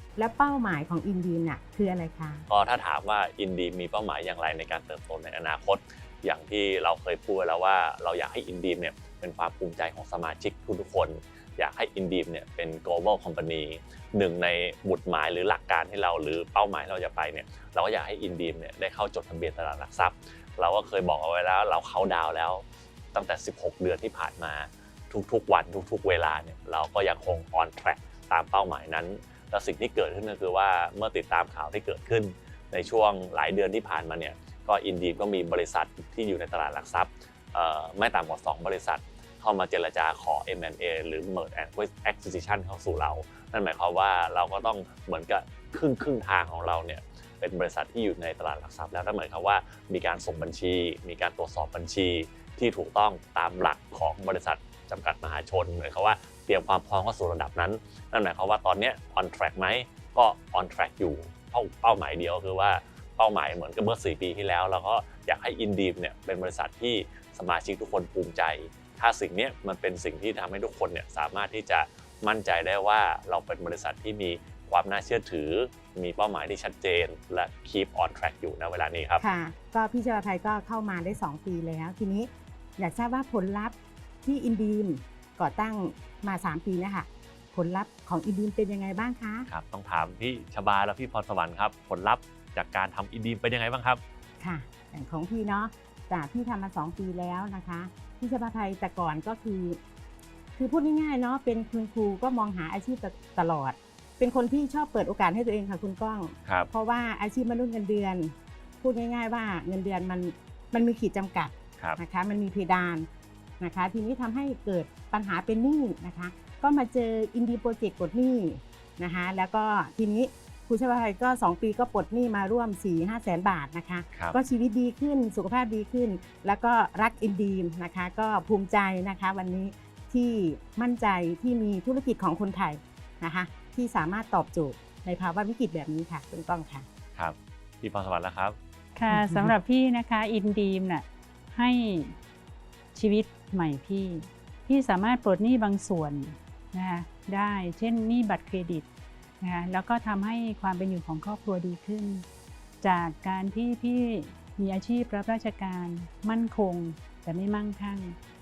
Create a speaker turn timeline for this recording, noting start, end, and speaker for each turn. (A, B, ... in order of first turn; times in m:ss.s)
0:00.2-0:02.4 A
0:02.5-1:19.2 B
1:19.2-1:29.5 A
1:29.5-1:34.0 B
1:34.4-1:39.8 A
1:40.6-1:53.1 A
1:53.6-2:16.8 A
2:17.2-2:18.6 B
2:19.0-2:22.2 C
2:19.1-2:19.5 A
2:22.9-2:28.8 C
2:29.4-2:32.2 C
2:32.8-2:38.2 C